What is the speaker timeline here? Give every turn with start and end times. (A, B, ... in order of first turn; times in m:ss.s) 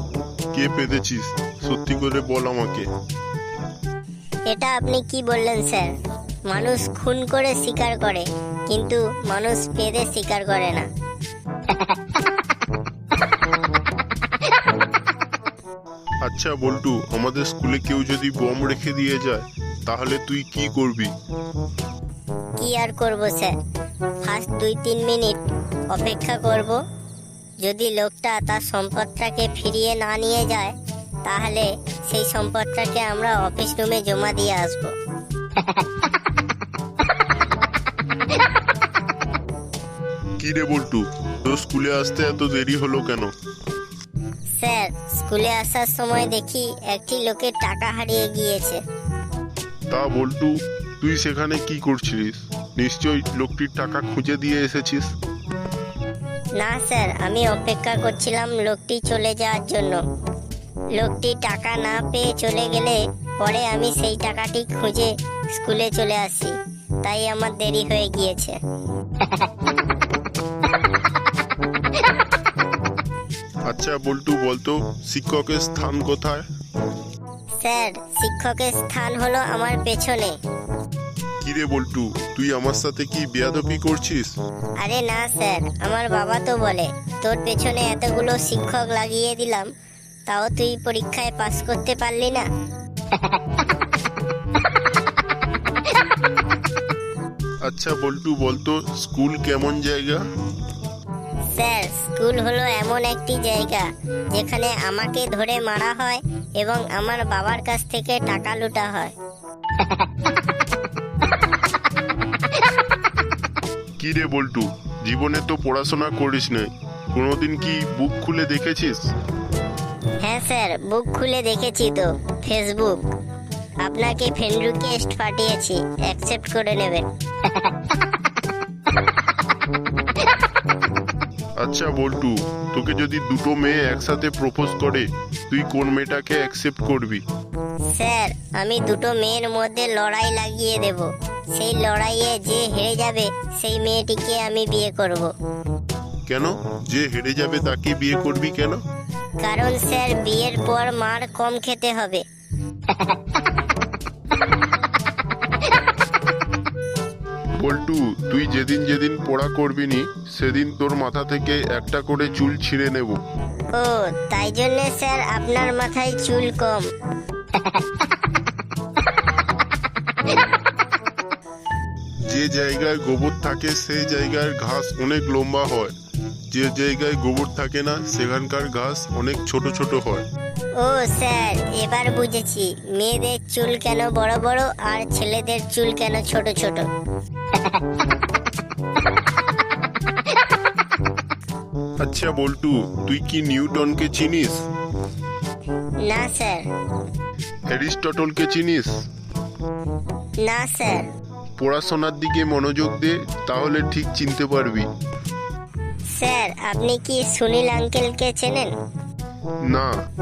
0:00.5-0:02.8 A
0:04.5-0:05.9 B
0:06.5-0:10.9 B
0:16.2-0:21.1 A
0:22.6-0:23.5 B
0:24.2-0:26.8 B
0:27.6-0:34.9 B
0:40.4-0:43.3 A
0:44.6-0:48.8 B
0:49.9-0:55.1 A
0:56.6-1:00.0 B
1:01.0-1:08.6 B
1:13.7-1:16.4 A
1:17.6-1:20.4 B
1:21.4-1:24.4 A
1:24.8-1:29.7 B
1:30.3-1:32.4 B
1:37.6-1:40.2 A
1:41.5-1:49.1 B
1:54.0-1:59.1 A
2:00.2-2:03.0 B
2:03.8-2:07.1 B
2:11.6-2:17.2 A
2:17.9-2:25.3 B
2:26.3-2:28.8 A
2:29.4-2:32.2 B
2:37.6-2:43.2 A
2:43.7-2:46.9 B
2:52.3-2:55.9 A
2:56.5-3:00.2 A
3:00.8-3:06.9 B
3:12.0-3:14.6 A
3:16.0-3:16.6 B
3:17.7-3:19.0 A
3:20.4-3:21.0 B
3:21.6-3:24.9 A
3:26.1-3:28.7 B
3:29.7-3:29.9 A